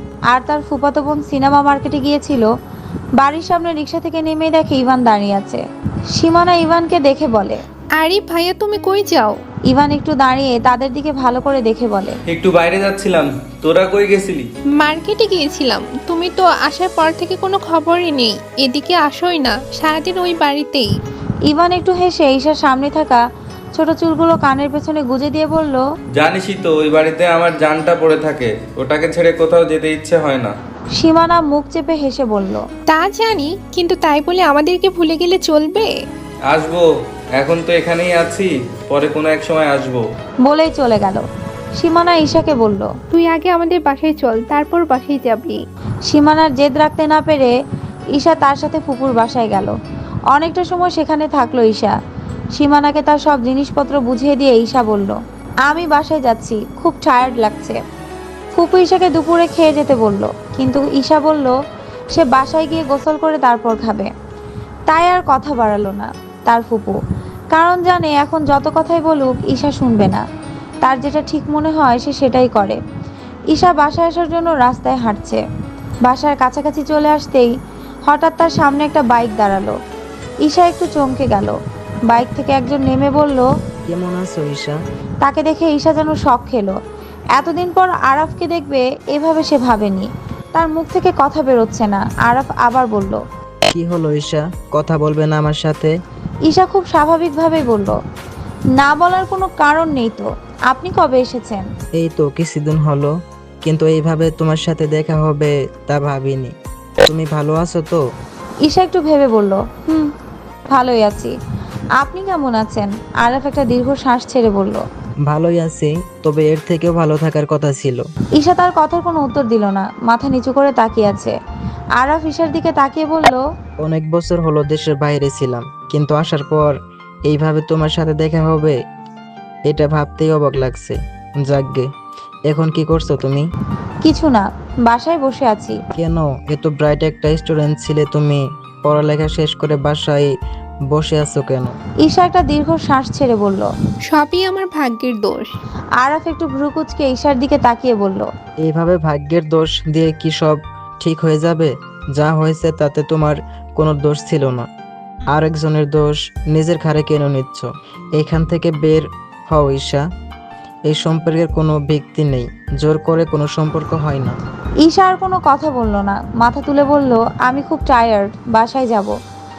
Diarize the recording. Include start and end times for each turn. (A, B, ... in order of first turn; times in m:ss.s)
0:00.3-0:02.5 A
0:03.2-0:05.6 A
0:06.1-0:07.6 A
0:08.0-0:09.4 B
0:09.7-0:12.2 A
0:12.3-0:14.5 C
0:14.8-0:20.9 B
0:21.5-0:23.2 A
0:23.7-0:25.8 A
0:26.2-0:30.5 C
0:31.0-0:32.6 A
0:32.9-0:35.9 B
0:36.5-0:36.8 C
0:37.4-0:40.0 C
0:40.4-0:41.2 A
0:41.8-0:42.9 A
0:43.1-0:45.6 B
0:46.1-0:47.5 A
0:48.1-0:49.7 A
0:50.3-0:51.9 A
0:52.5-0:55.2 A
0:55.7-0:57.8 A
0:58.5-1:01.5 A
1:02.1-1:04.1 A
1:04.9-1:07.0 A
1:07.5-1:10.2 A
1:10.8-1:12.8 A
1:13.5-1:15.4 A
1:16.0-1:17.5 A
1:18.1-1:19.8 A
1:20.4-1:21.6 A
1:22.1-1:23.5 A
1:23.9-1:24.8 D
1:25.2-1:26.8 A
1:27.3-1:33.2 A
1:33.7-1:35.9 D
1:36.5-1:38.0 A
1:38.8-1:41.7 A
1:42.0-1:43.1 D
1:43.6-1:46.5 D
1:47.0-1:48.0 D
1:48.6-1:50.1 A
1:50.7-1:51.3 A
1:52.0-1:54.8 A
1:55.3-1:58.0 D
1:58.4-2:01.4 A
2:02.0-2:03.4 A
2:03.8-2:06.7 D
2:07.3-2:08.8 D
2:09.7-2:11.9 D
2:12.5-2:13.4 D
2:14.0-2:15.8 A
2:15.9-2:20.3 D
2:20.9-2:21.7 D
2:22.0-2:23.7 A
2:24.1-2:25.5 B
2:26.0-2:28.3 A
2:28.6-2:34.7 D
2:35.3-2:40.0 D
2:40.9-2:44.4 D
2:44.8-2:49.1 A